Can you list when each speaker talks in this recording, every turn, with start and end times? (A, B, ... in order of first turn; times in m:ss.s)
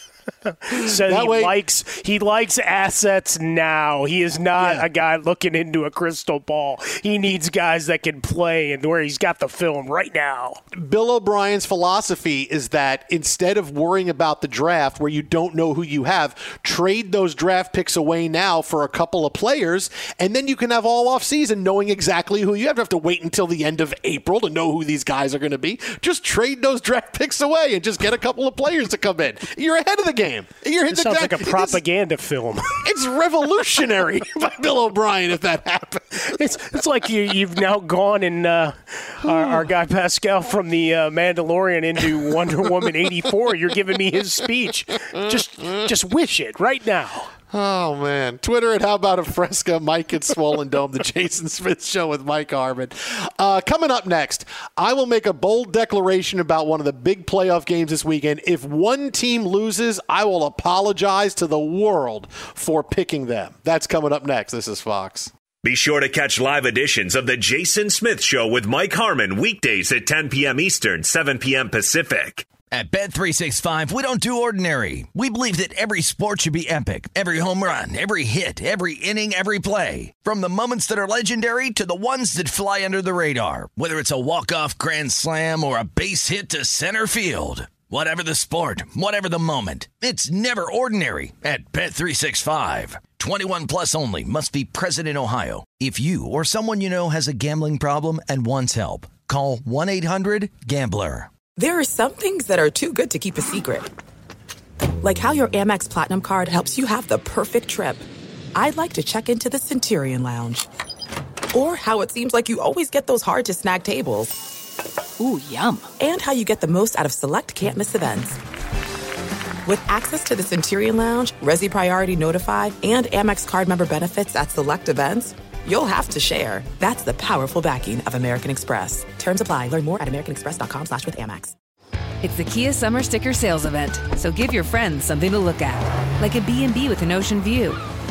0:00.4-0:10.6 A
0:00.7-0:01.6 B
0:04.6-0:04.8 B
0:10.7-0:31.8 B
0:30.9-0:32.8 A
0:32.8-0:36.4 B
0:36.2-0:47.3 A
0:39.2-0:39.6 B
0:47.5-1:05.3 B
1:05.6-1:12.5 C
1:12.7-1:41.3 D
1:41.6-1:43.9 E
1:45.0-1:50.7 E
1:51.5-1:54.4 E
1:55.2-1:55.9 F
1:56.0-1:58.4 E
1:59.7-2:11.6 E
2:12.2-2:17.8 F